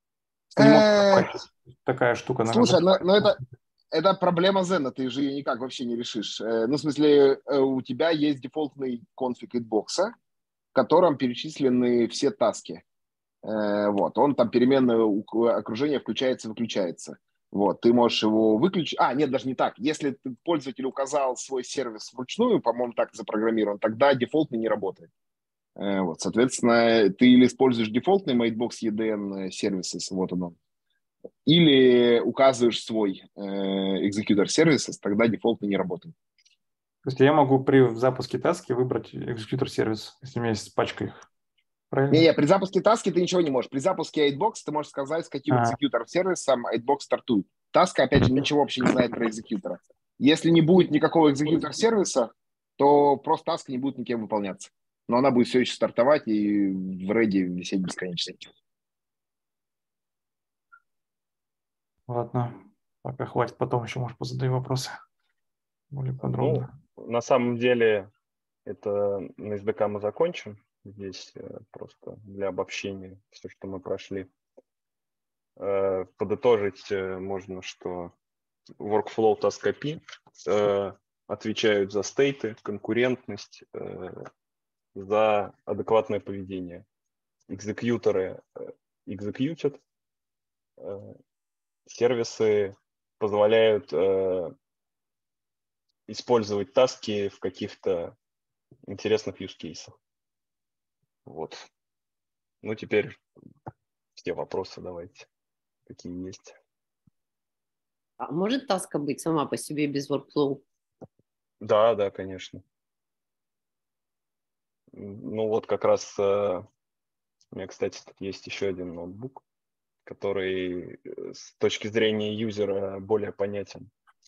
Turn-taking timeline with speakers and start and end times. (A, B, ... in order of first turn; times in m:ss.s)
0:00.5-0:03.4 A
0:00.6-0:01.3 B
0:02.5-0:03.4 B
0:03.9-0:10.1 B
0:10.7-0:12.8 B
0:13.4-0:25.1 B
0:25.8-0:30.6 B
0:31.4-0:36.1 B
0:37.0-0:41.2 A
0:41.9-0:42.2 A
0:42.1-0:58.4 B
0:45.5-0:45.8 A
1:02.1-1:05.0 A
1:05.9-1:06.7 A
1:06.2-1:08.1 C
1:08.6-1:14.3 C
1:15.6-1:18.1 C
1:18.8-1:24.2 C
1:24.9-1:26.8 C
1:27.5-1:29.8 C
1:30.8-1:31.2 C
1:31.9-1:34.5 C
1:36.1-1:38.1 C
1:38.9-1:39.9 C
1:41.2-1:41.6 C
1:42.6-1:43.2 C
1:44.2-1:45.3 C
1:45.9-1:46.6 C
1:48.2-1:50.6 D
1:51.6-1:52.6 C
1:54.9-1:56.6 C
1:57.5-1:59.4 C
2:00.0-2:03.9 C